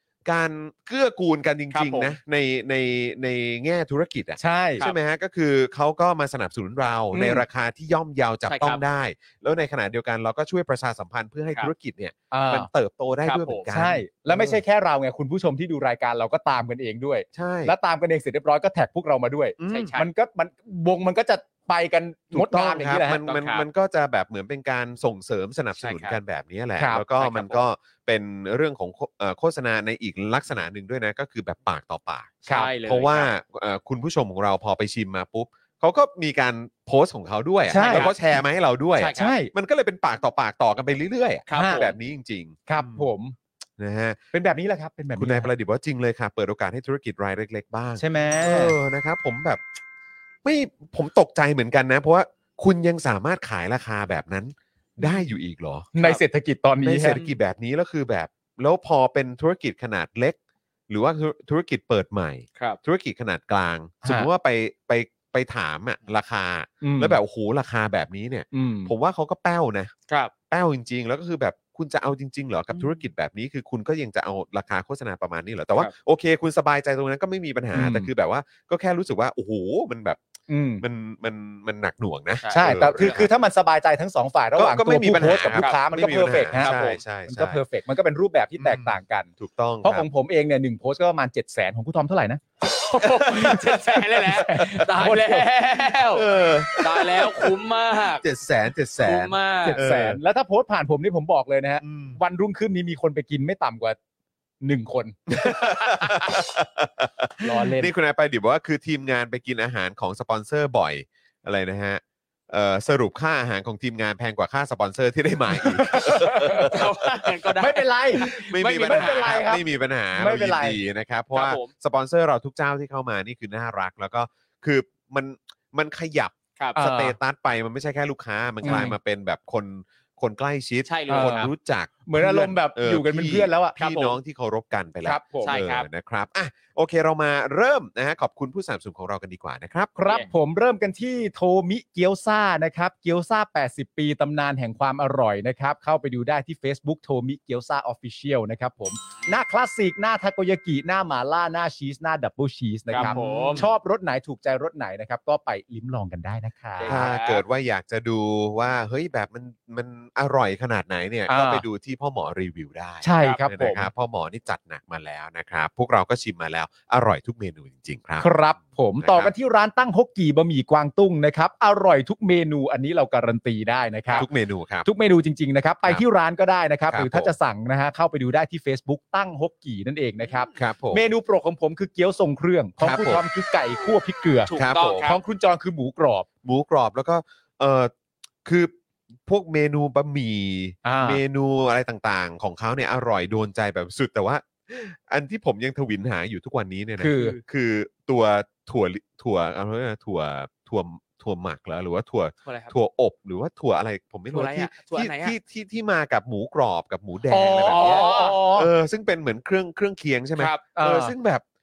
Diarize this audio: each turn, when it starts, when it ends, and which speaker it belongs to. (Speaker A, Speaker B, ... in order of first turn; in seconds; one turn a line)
Speaker A: 0.2-14.6
Speaker B: 1.7-2.1
Speaker C: 4.4-4.8
Speaker C: 7.1-7.4
Speaker B: 8.5-8.8
Speaker C: 12.3-12.7
Speaker B: 13.2-13.7
Speaker C: 13.7-23.2
Speaker A: 17.3-17.7
Speaker A: 19.6-19.9
Speaker B: 19.7-20.1
Speaker A: 22.3-43.0
Speaker B: 23.2-23.6
Speaker B: 25.8-26.2
Speaker C: 26.8-27.0
Speaker B: 27.2-27.6
Speaker C: 32.5-32.7
Speaker B: 32.5-33.3
Speaker C: 37.7-38.1
Speaker B: 37.7-38.1
Speaker B: 39.0-39.3
Speaker C: 39.1-39.5
Speaker B: 41.5-41.9
Speaker C: 41.5-41.9
Speaker C: 42.7-43.4
Speaker A: 43.8-44.2
Speaker C: 44.3-45.5
Speaker A: 45.1-49.6
Speaker C: 48.0-48.8
Speaker A: 50.4-55.9
Speaker C: 55.9-57.2
Speaker A: 56.8-60.4
Speaker B: 57.1-57.4
Speaker A: 60.9-69.9
Speaker C: 64.0-64.3
Speaker C: 66.8-67.2
Speaker C: 68.5-68.9
Speaker A: 70.5-80.2
Speaker C: 77.7-78.1
Speaker C: 80.5-80.8
Speaker A: 80.8-83.3
Speaker B: 82.4-83.2
Speaker C: 82.5-89.3
Speaker A: 84.5-87.6
Speaker B: 86.6-86.9
Speaker A: 88.6-90.1
Speaker C: 89.8-92.4
Speaker B: 92.8-96.3
Speaker C: 92.9-93.6
Speaker A: 93.0-93.5
Speaker C: 94.2-95.5
Speaker A: 96.1-100.2
Speaker B: 96.8-98.2
Speaker B: 99.0-99.8
Speaker C: 99.6-104.0
Speaker A: 101.8-102.2
Speaker C: 104.6-105.6
Speaker A: 105.3-117.5
Speaker C: 107.4-107.9
Speaker C: 115.5-116.8
Speaker B: 116.5-119.4
Speaker C: 117.6-119.6
Speaker A: 118.2-139.9
Speaker C: 120.1-120.8
Speaker B: 121.3-121.7
Speaker C: 126.8-127.2
Speaker C: 128.6-128.9
Speaker B: 128.6-128.9
Speaker B: 130.8-131.5
Speaker C: 131.1-131.5
Speaker C: 132.1-133.8
Speaker B: 133.8-134.2
Speaker C: 135.0-135.6
Speaker B: 135.4-135.9
Speaker C: 139.9-157.0
Speaker B: 152.9-153.6
Speaker A: 152.9-153.7
Speaker B: 156.8-157.4
Speaker A: 156.8-168.3
Speaker C: 161.3-161.6
Speaker C: 163.0-163.9
Speaker C: 168.2-174.3
Speaker A: 169.0-169.3
Speaker A: 174.2-174.9
Speaker C: 174.8-184.5
Speaker A: 176.9-177.3
Speaker B: 180.2-180.5
Speaker A: 180.5-181.1
Speaker A: 182.8-183.2
Speaker B: 184.4-185.2
Speaker A: 184.5-185.1
Speaker C: 185.0-186.2
Speaker A: 186.4-187.9
Speaker A: 188.4-188.7
Speaker A: 189.2-211.4
Speaker C: 190.8-191.2
Speaker C: 197.0-197.4
Speaker B: 197.1-197.4
Speaker B: 202.4-202.7
Speaker B: 204.3-205.3
Speaker C: 207.3-208.7
Speaker B: 207.6-208.4
Speaker B: 210.3-210.6
Speaker C: 210.7-211.1